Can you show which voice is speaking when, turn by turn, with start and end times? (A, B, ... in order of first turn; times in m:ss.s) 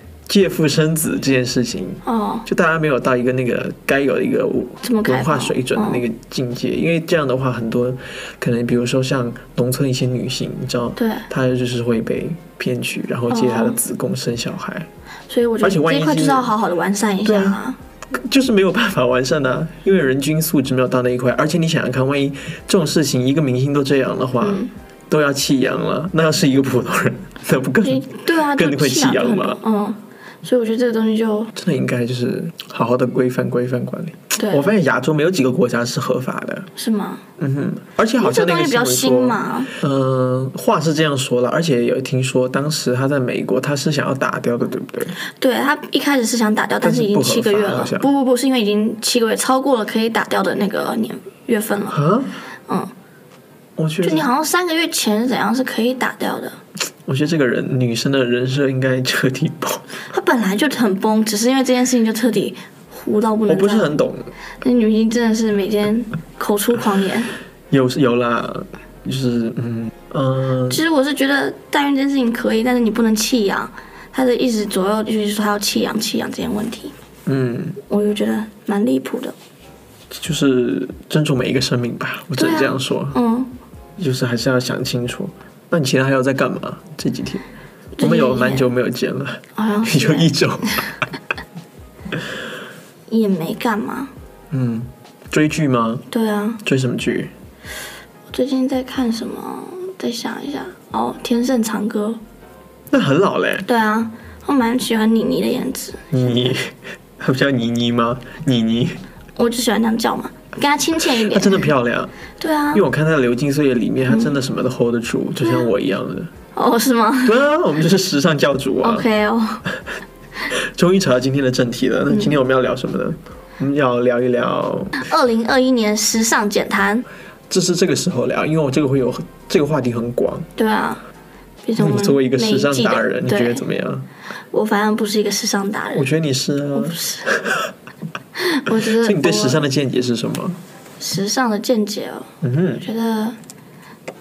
0:00.3-0:14.9 A
0:02.0-0:02.5 B
0:04.8-0:06.0 B
0:11.0-0:11.3 B
0:13.3-0:13.8 B
0:15.3-0:17.8 B
0:15.6-0:16.5 A
0:17.2-0:29.6 A
0:24.4-0:24.7 B
0:27.8-0:31.5 B
0:31.5-0:36.7 A
0:34.4-0:34.7 B
0:36.8-0:37.2 B
0:37.4-0:45.2 A
0:38.2-0:39.7 B
0:45.2-0:52.0 B
0:46.8-0:48.1 A
0:51.9-0:52.3 A
0:53.8-0:54.3 A
0:54.0-0:56.6 B
0:57.1-1:00.0 A
1:00.1-1:03.9 B
1:03.5-1:04.3 A
1:04.6-1:07.3 B
1:07.7-1:10.8 A
1:10.7-1:16.9 B
1:17.3-1:17.8 A
1:17.9-1:19.3 B
1:20.1-1:23.2 A
1:22.4-1:23.5 B
1:24.0-1:27.5 A
1:28.0-1:28.7 B
1:28.0-1:30.8 A
1:29.6-1:30.7 B
1:33.1-1:34.1 B
1:34.5-1:36.1 A
1:36.1-1:36.6 B
1:36.6-1:37.3 A
1:38.3-1:42.2 B
1:42.9-1:43.7 A
1:43.7-1:46.5 B
1:46.1-1:49.0 A
1:49.4-1:51.7 B
1:51.0-1:52.1 A
1:52.4-1:52.8 B
1:52.7-1:56.3 A
1:56.6-1:57.4 B
1:57.3-1:59.1 A
1:58.8-1:59.6 B
2:00.5-2:05.0 A
2:05.0-2:07.0 B
2:07.5-2:10.5 A
2:10.6-2:11.0 B
2:11.6-2:13.6 B
2:11.8-2:14.1 A
2:14.5-2:16.0 B
2:15.9-2:17.7 A
2:16.8-2:17.3 B
2:18.4-2:19.6 B
2:18.7-2:20.6 A
2:21.0-2:23.4 B
2:22.4-2:22.8 A